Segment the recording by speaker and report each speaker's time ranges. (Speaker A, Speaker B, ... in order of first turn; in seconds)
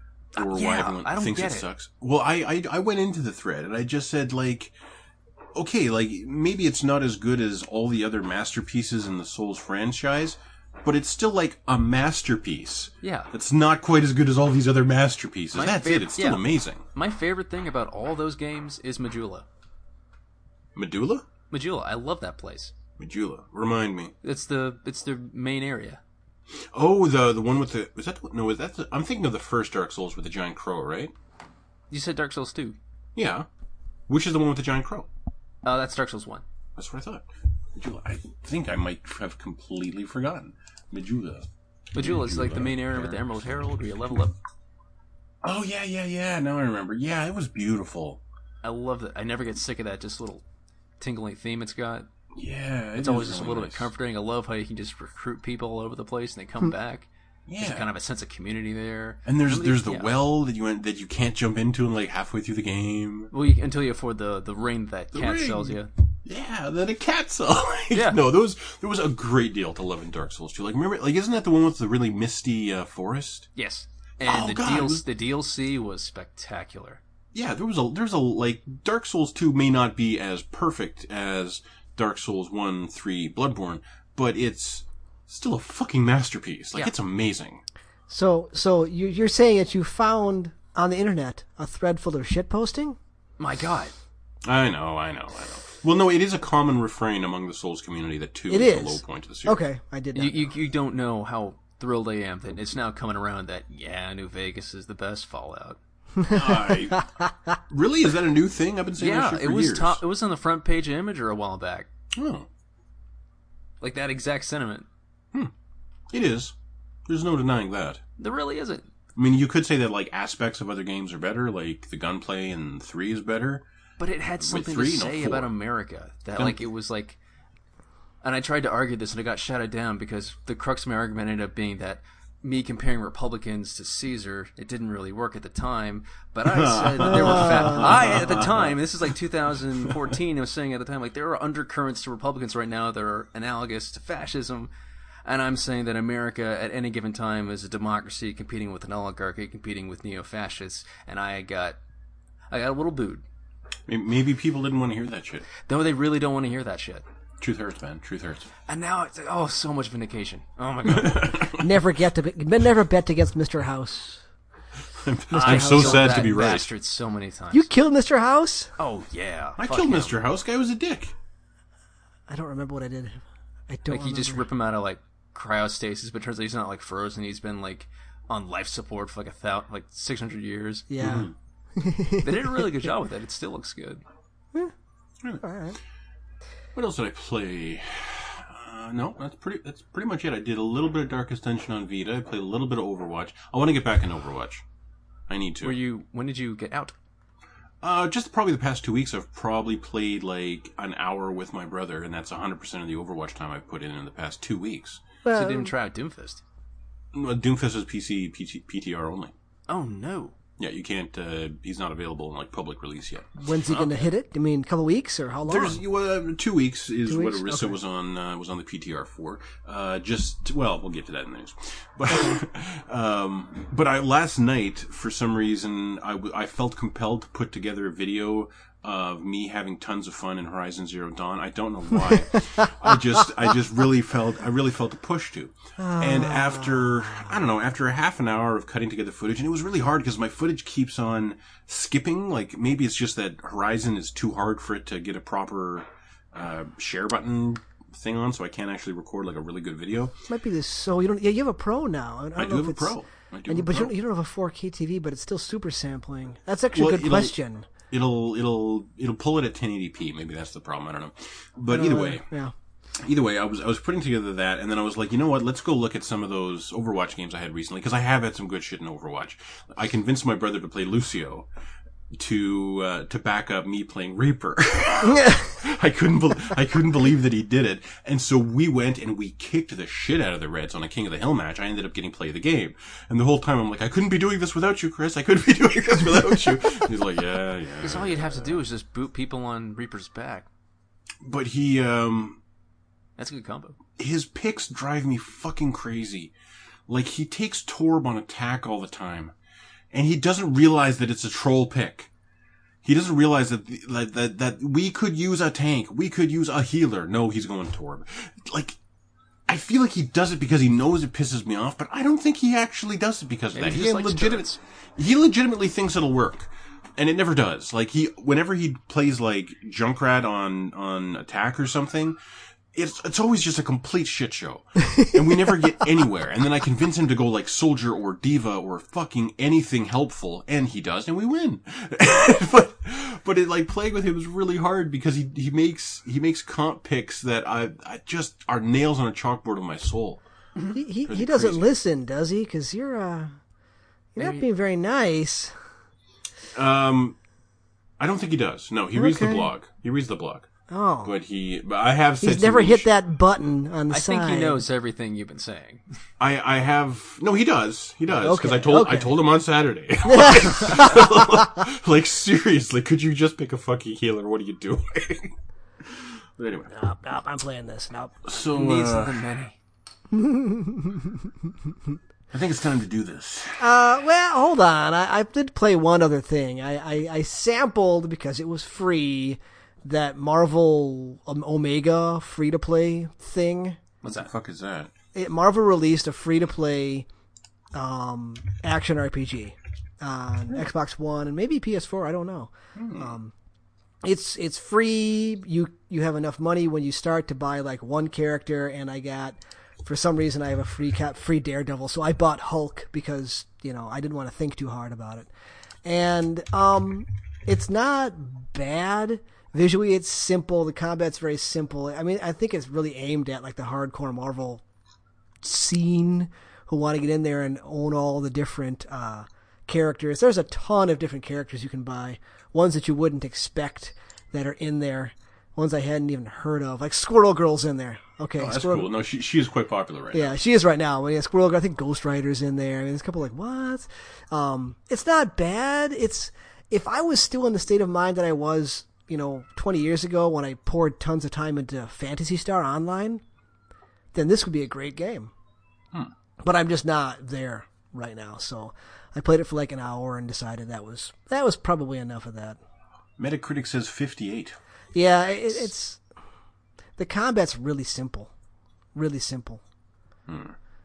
Speaker A: 0.3-4.7, 5.5-16.8, 20.8-21.3, 23.0-24.1, 26.7-31.1, 33.1-33.5, 34.1-35.1, 36.8-43.2, 45.4-48.2, 52.4-53.9, 57.5-57.9, 59.3-63.3, 65.1-73.5, 74.2-75.0, 77.3-87.6, 94.5-99.6, 106.3-107.0, 107.7-110.0, 112.1-112.5, 116.1-116.5, 117.1-118.0, 119.2-123.6, 124.4-125.5, 126.3-126.7, 136.4-138.8, 153.9-155.5, 157.4-158.5, 160.9-161.7, 164.9-166.7, 169.6-171.1, 181.0-181.3, 186.8-194.6, 195.3-195.8, 197.8-205.1, 207.1-209.3, 210.6-214.1, 215.4-250.2, 252.4-253.9, 256.7-257.4, 257.9-262.2, 263.0-271.5, 272.1-288.6, 291.2-292.4, 294.0-296.3, 296.9-299.3, 299.9-302.1, 302.8-308.8, 309.5-322.2, 322.7-340.2, 341.1-341.7, 346.5-347.1, 348.0-350.5, 351.0-352.9, 356.2-366.7, 368.2-369.2, 372.3-373.7, 384.1-384.9, 392.8-393.1, 428.4-430.4, 453.2-454.6, 460.3-460.6
Speaker B: 0.4-1.7, 13.0-13.3, 15.5-19.5, 21.5-22.7, 24.2-26.0, 31.9-32.8, 35.6-36.4, 41.9-44.4, 48.6-50.4, 51.0-52.1, 53.0-60.2, 63.3-65.9, 67.9-68.2, 73.5-77.0, 93.4-93.9, 100.2-105.8, 109.0-111.9, 113.8-114.9, 118.2-118.9, 124.0-127.2, 128.2-144.7, 145.2-151.8, 152.5-153.2, 155.7-157.1, 158.7-161.5, 165.4-167.7, 168.8-170.2, 173.9-180.9, 182.2-184.0, 195.6-196.9, 205.3-206.4, 209.7-210.3, 287.8-290.5, 293.2-293.8, 313.5-314.6, 353.9-355.8, 368.5-369.6, 384.0-384.3
Speaker C: 88.1-93.0, 98.5-100.5, 106.2-107.0, 137.1-137.8, 161.5-164.2, 165.3-166.3, 167.5-168.7, 172.3-174.5, 180.9-182.7, 185.4-185.8, 205.2-205.7, 213.4-215.8, 217.1-217.8, 235.8-237.4, 250.3-252.9, 253.5-257.7, 261.7-262.5, 275.1-275.5, 340.7-343.4, 344.1-345.5, 348.9-349.5, 350.7-351.1, 352.2-354.6, 358.2-359.2, 360.0-361.5, 366.7-368.3, 370.1-371.2, 373.6-383.8, 385.1-387.1, 387.7-393.3, 394.0-405.3, 405.9-414.6, 415.4-428.9, 430.1-443.2, 444.1-445.3, 446.4-452.6, 454.9-456.0, 457.0-458.3, 458.9-459.6